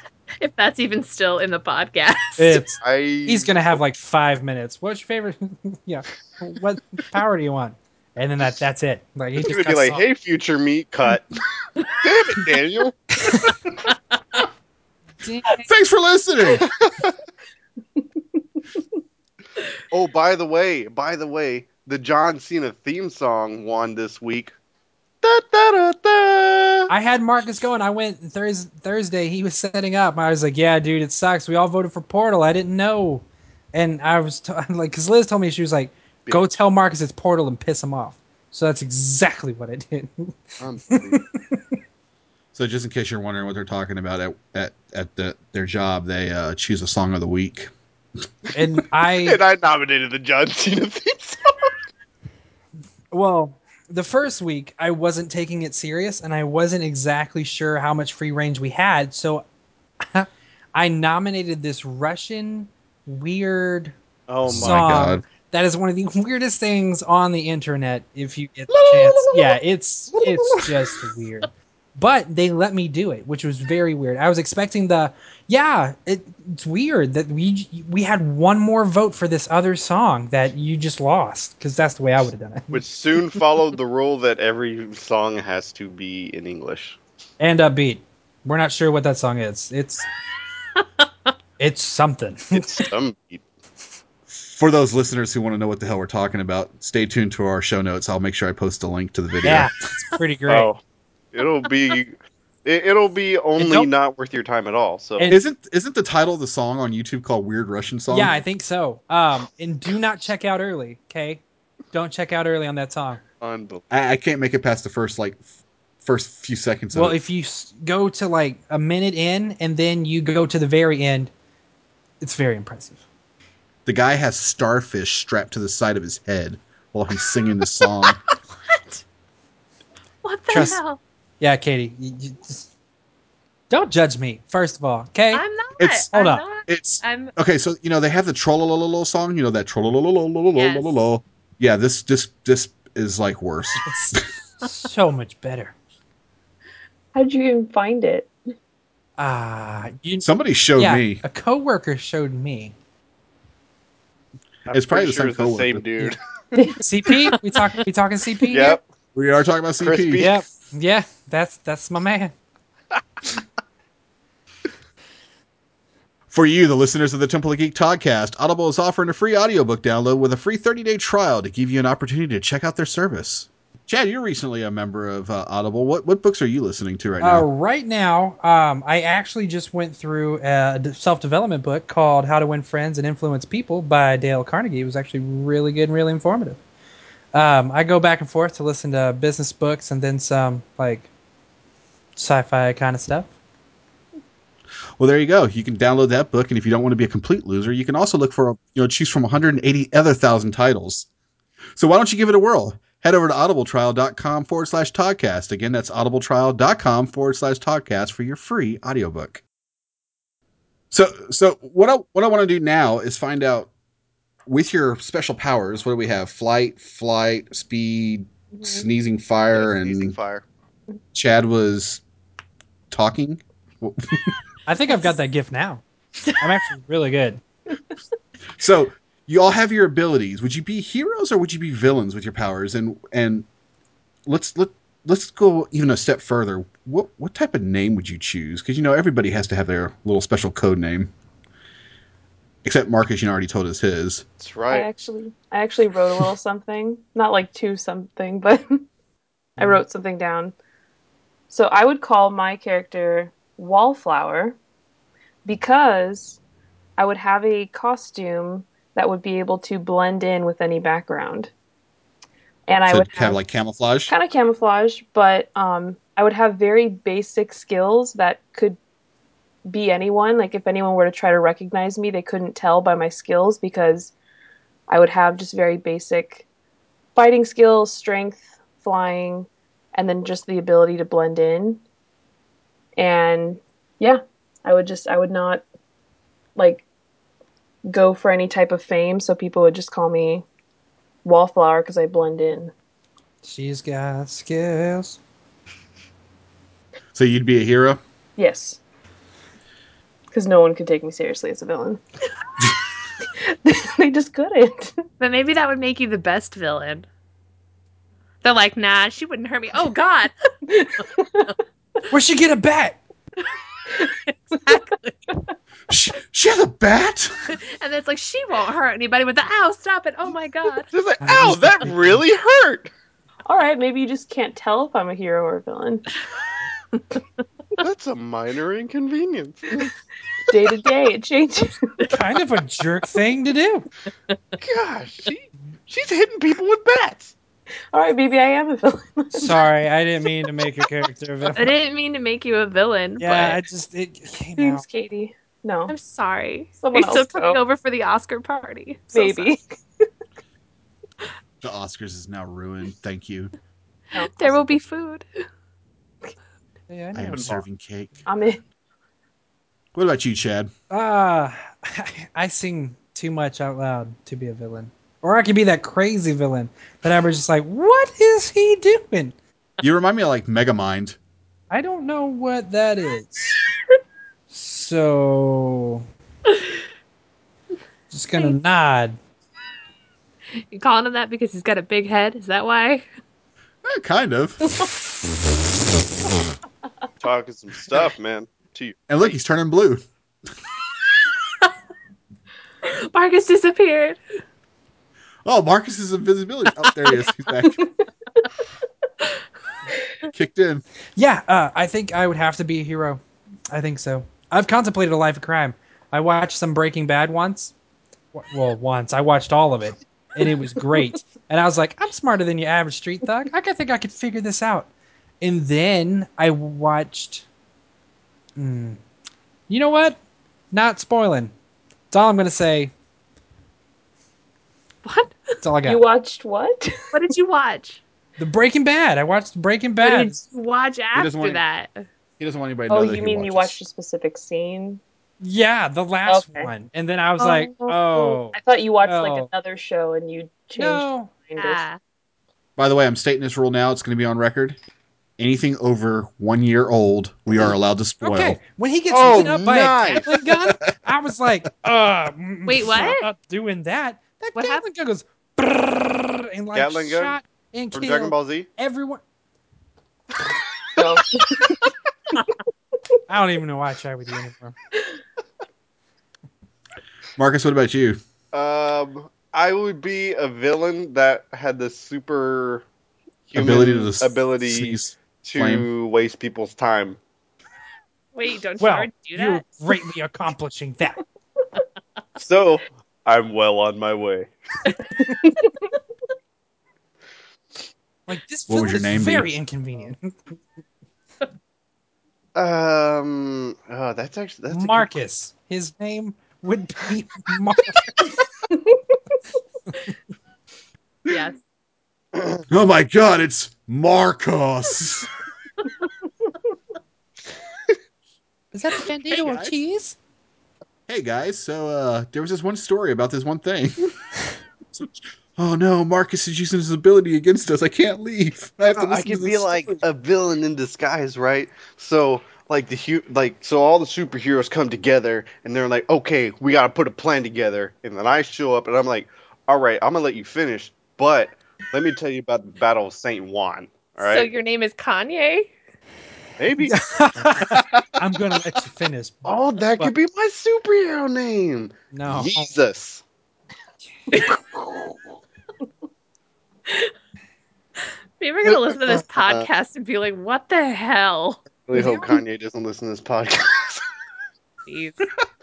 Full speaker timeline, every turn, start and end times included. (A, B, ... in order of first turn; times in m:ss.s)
0:00.4-0:02.6 A
0:02.4-0:10.0 B
0:02.8-0:03.5 C
0:09.4-0:11.3 C
0:12.0-0:13.0 C
0:13.2-0:13.5 B
0:15.2-0:15.7 B
0:15.6-0:16.7 D
0:16.6-0:17.1 C
0:19.9-0:24.5 C
0:25.2-0:26.9 C
0:26.9-0:41.7 B
0:36.2-0:36.6 C
0:40.6-0:41.2 C
0:42.5-0:47.7 D
0:48.5-0:49.4 B
0:49.2-0:51.7 C
0:53.1-0:59.4 B
1:00.0-1:03.9 B
1:04.3-1:04.8 C
1:04.4-1:05.2 D
1:04.5-1:22.9 B
1:08.7-1:09.6 C
1:10.5-1:10.8 C
1:22.7-1:27.0 C
1:27.4-1:30.0 B
1:31.6-1:32.7 B
1:32.5-1:33.4 C
1:34.3-1:39.7 D
1:39.4-1:40.7 B
1:40.5-1:40.8 C
1:41.3-1:45.3 C
1:43.6-1:43.9 B
1:45.2-1:45.4 B
1:45.3-1:48.4 D
1:48.1-1:53.2 B
1:53.4-1:53.8 C
1:53.9-1:55.4 D
1:56.0-1:57.2 D
1:56.9-2:01.3 B
2:02.2-2:03.0 B
2:03.8-2:08.2 D
2:08.3-2:09.0 A
2:10.2-2:11.0 A
2:10.5-2:10.8 B
2:11.4-2:12.7 B
2:13.7-2:15.4 B
2:15.3-2:17.3 A
2:15.8-2:16.1 D
2:16.1-2:16.4 B
2:16.6-2:24.2 D
2:20.6-2:21.0 A
2:23.8-2:25.7 B
2:27.1-2:28.3 E
2:29.2-2:30.2 B
2:30.2-2:31.2 D
2:30.8-2:32.7 B
2:34.6-2:36.6 C
2:34.7-2:36.0 D
2:36.5-2:36.8 E
2:36.8-2:38.8 B
2:38.5-2:38.8 C
2:39.1-2:40.3 D
2:39.8-2:40.4 C
2:40.2-2:42.3 B
2:46.3-2:57.5 D
2:57.2-3:06.6 B
3:07.3-3:11.1 B
3:12.2-3:13.3 B
3:15.0-3:21.1 D
3:21.8-3:29.4 D
3:30.9-3:33.7 D
3:34.5-3:40.2 D
3:38.5-3:38.9 E
3:39.5-3:40.4 C
3:41.1-3:42.0 D
3:42.9-3:44.4 D
3:44.6-3:45.8 B
3:46.4-3:47.4 B
3:48.6-3:53.5 D
3:54.2-4:01.1 D
4:02.6-4:04.2 D
4:04.4-4:04.9 C
4:04.7-4:08.8 E
4:09.6-4:10.5 E
4:11.5-4:14.6 E
4:15.4-4:16.4 E
4:17.0-4:21.5 E
4:22.7-4:23.4 E
4:22.9-4:24.1 D
4:24.1-4:28.8 E
4:29.6-4:34.1 E
4:34.9-4:36.4 E
4:37.2-4:41.8 E
4:43.0-4:45.6 E
4:46.6-4:46.8 E
4:47.8-4:50.4 E
4:51.2-4:52.7 E
4:53.4-4:55.2 B
4:57.1-4:58.0 D
4:58.4-4:58.8 E
5:00.3-5:02.0 E
5:03.2-5:05.0 E
5:05.2-5:07.1 A
5:08.4-5:10.3 A
5:10.7-5:11.5 E
5:12.1-5:13.0 B
5:14.1-5:14.8 E
5:14.3-5:15.3 A
5:15.9-5:17.5 D
5:17.5-5:20.9 A
5:20.9-5:22.9 C
5:21.2-5:22.0 B
5:23.4-5:26.0 E
5:27.8-5:29.9 C
5:30.5-5:32.2 E
5:32.1-5:33.9 B
5:34.6-5:37.3 C
5:37.9-5:39.6 E
5:39.4-5:41.7 B
5:41.5-5:43.6 A
5:43.2-5:44.8 B
5:44.6-5:45.9 E
5:45.9-5:49.5 A
5:46.8-5:47.6 E
5:49.1-5:50.1 E
5:51.6-5:53.5 D
5:54.1-5:54.8 E
5:54.1-5:55.2 A
5:56.9-5:57.6 B
5:57.1-5:58.2 D
5:58.2-5:58.6 E
5:59.9-6:00.7 D
6:00.9-6:09.3 B
6:09.8-6:11.2 D
6:11.7-6:13.6 B
6:14.5-6:16.0 B
6:18.1-6:19.2 B
6:20.6-6:23.0 A
6:23.8-6:24.7 D
6:27.2-6:29.3 C
6:29.1-6:30.0 D
6:32.8-6:34.2 A
6:35.4-6:37.8 D
6:40.3-6:40.8 D
6:41.2-6:47.7 B
6:48.3-6:54.9 B
6:55.4-6:57.4 B
6:58.6-6:59.0 B
6:59.7-7:00.2 B
7:00.7-7:01.5 B
7:02.1-7:02.9 B
7:05.0-7:05.5 A
7:05.6-7:06.0 B
7:05.8-7:06.9 E
7:07.1-7:08.0 A
7:08.4-7:10.4 B
7:10.0-7:10.4 E
7:10.5-7:12.1 A
7:11.1-7:11.6 D
7:12.4-7:13.8 D
7:12.9-7:15.0 E
7:15.4-7:19.5 B
7:16.2-7:16.7 E
7:17.4-7:17.9 A
7:17.8-7:21.8 E
7:20.8-7:21.4 B
7:21.6-7:22.0 A
7:22.8-7:24.8 D
7:25.4-7:28.6 D
7:28.2-7:39.2 B
7:29.1-7:30.4 C
7:30.6-7:30.9 D
7:32.6-7:33.3 A
7:34.6-7:34.8 A
7:36.7-7:37.4 C
7:37.9-7:38.7 C
7:41.0-7:41.8 E
7:43.3-7:44.8 B
7:47.4-7:48.2 D
7:48.5-7:52.8 C
7:53.5-7:57.2 C
7:53.5-7:55.9 D
7:58.3-7:59.6 A
7:58.8-8:01.2 B
8:02.4-8:04.5 C
8:05.2-8:05.8 E
8:08.3-8:10.5 B
8:08.7-8:09.5 D
8:12.5-8:15.1 C
8:14.7-8:18.0 B
8:18.7-8:19.0 E
8:21.3-8:21.6 A
8:22.3-8:22.6 C
8:22.7-8:25.3 D
8:28.7-8:30.2 B
8:29.3-8:29.8 D
8:31.1-8:34.1 D
8:34.9-8:40.0 D
8:38.9-8:54.5 C
8:54.2-8:55.7 A
8:56.6-8:58.6 C
8:56.8-8:59.4 B
8:59.4-9:03.2 C
9:02.1-9:02.7 B
9:08.4-9:11.6 A
9:08.6-9:09.7 C
9:11.8-9:14.0 C
9:14.9-9:15.2 A